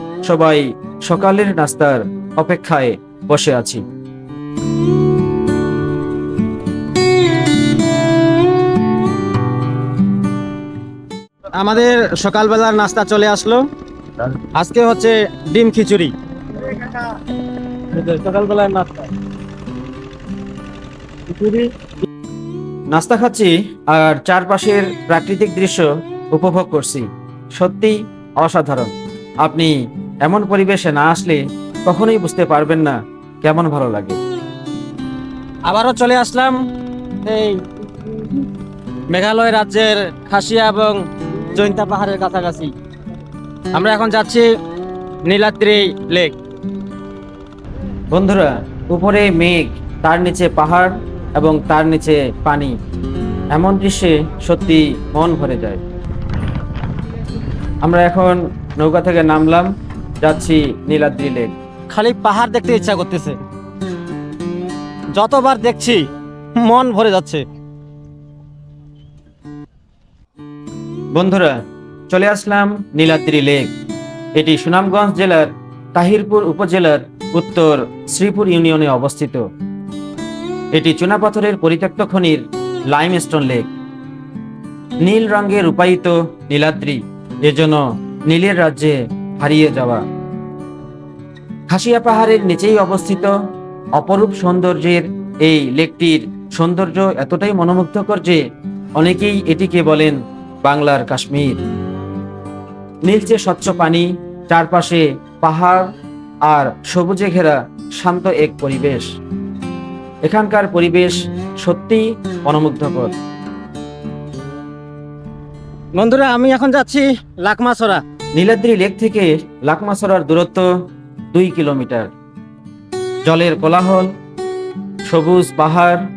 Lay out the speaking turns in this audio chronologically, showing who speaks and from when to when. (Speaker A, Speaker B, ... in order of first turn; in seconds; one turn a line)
Speaker A: 0.3-3.8
Speaker B: 11.6-13.6
Speaker A: 12.4-13.4
Speaker B: 14.6-16.1
Speaker A: 14.7-15.1
Speaker B: 17.9-19.1
Speaker B: 21.4-21.6
Speaker A: 22.9-34.2
Speaker B: 35.7-36.5
Speaker A: 35.9-36.4
Speaker B: 37.3-37.7
Speaker B: 39.1-41.0
Speaker B: 41.5-42.7
Speaker B: 43.8-44.4
Speaker A: 44.0-44.3
Speaker B: 45.3-46.3
Speaker A: 48.1-52.8
Speaker A: 53.5-55.8
Speaker A: 57.8-59.7
Speaker A: 60.2-61.5
Speaker B: 62.0-63.4
Speaker B: 65.2-66.0
Speaker B: 66.6-67.4
Speaker A: 71.1-73.7
Speaker A: 74.4-79.5
Speaker A: 80.7-83.7
Speaker A: 85.0-90.0
Speaker A: 91.7-93.3
Speaker A: 94.0-98.4
Speaker A: 99.0-101.6
Speaker A: 103.1-105.9
Speaker A: 106.5-109.1
Speaker A: 110.2-113.1
Speaker B: 116.0-118.0
Speaker A: 116.2-117.0
Speaker A: 118.4-120.7
Speaker A: 121.3-122.1
Speaker A: 123.2-124.1
Speaker A: 125.1-126.0